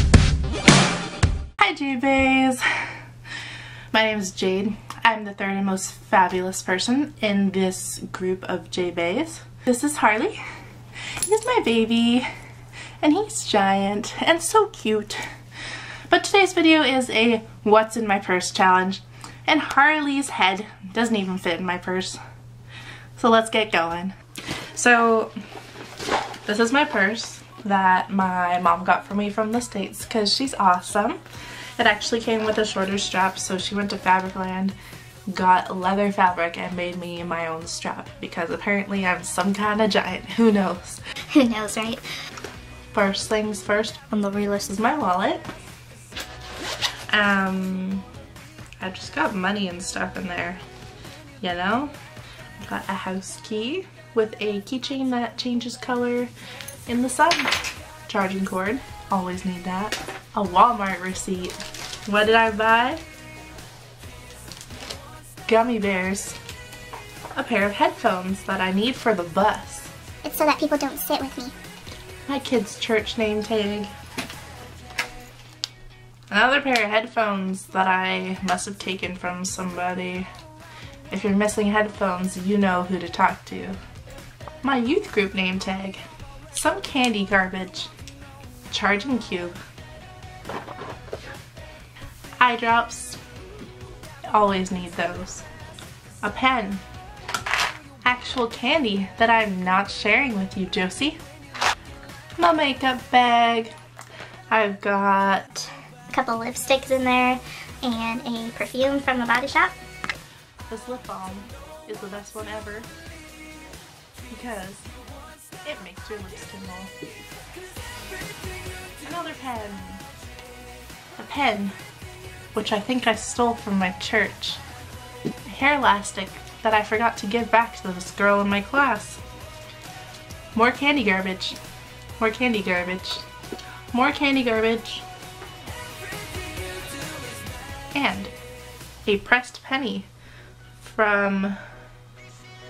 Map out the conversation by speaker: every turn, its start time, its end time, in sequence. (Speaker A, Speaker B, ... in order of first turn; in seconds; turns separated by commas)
Speaker A: 1.6-2.6, Speaker A: 3.9-10.4, Speaker A: 11.2-12.3, Speaker A: 13.0-15.3, Speaker A: 16.1-22.2, Speaker A: 23.2-24.2, Speaker A: 24.7-25.3, Speaker A: 26.5-31.2, Speaker A: 31.8-34.8, Speaker A: 35.3-41.0, Speaker B: 41.3-42.0, Speaker A: 42.9-45.5, Speaker A: 47.1-48.1, Speaker A: 48.8-50.6, Speaker A: 51.4-52.0, Speaker A: 52.6-56.3, Speaker A: 56.9-63.0, Speaker A: 65.5-66.4, Speaker A: 67.3-69.9, Speaker B: 70.2-71.5, Speaker A: 72.3-73.9, Speaker A: 76.3-80.3, Speaker A: 81.1-83.8, Speaker A: 84.6-87.9, Speaker A: 88.7-89.6, Speaker A: 92.4-93.2, Speaker A: 94.3-95.5, Speaker A: 96.2-96.8, Speaker A: 98.0-101.2, Speaker A: 102.4-103.7, Speaker A: 104.5-105.7, Speaker B: 106.1-109.7, Speaker A: 110.7-112.9, Speaker A: 114.3-114.9, Speaker A: 115.6-116.9, Speaker A: 119.0-120.0, Speaker A: 121.2-121.8, Speaker A: 122.5-124.6, Speaker A: 125.5-129.2, Speaker A: 130.5-131.6, Speaker A: 132.2-133.2, Speaker A: 133.9-135.1, Speaker A: 137.9-138.3, Speaker A: 139.1-140.1, Speaker A: 140.8-141.6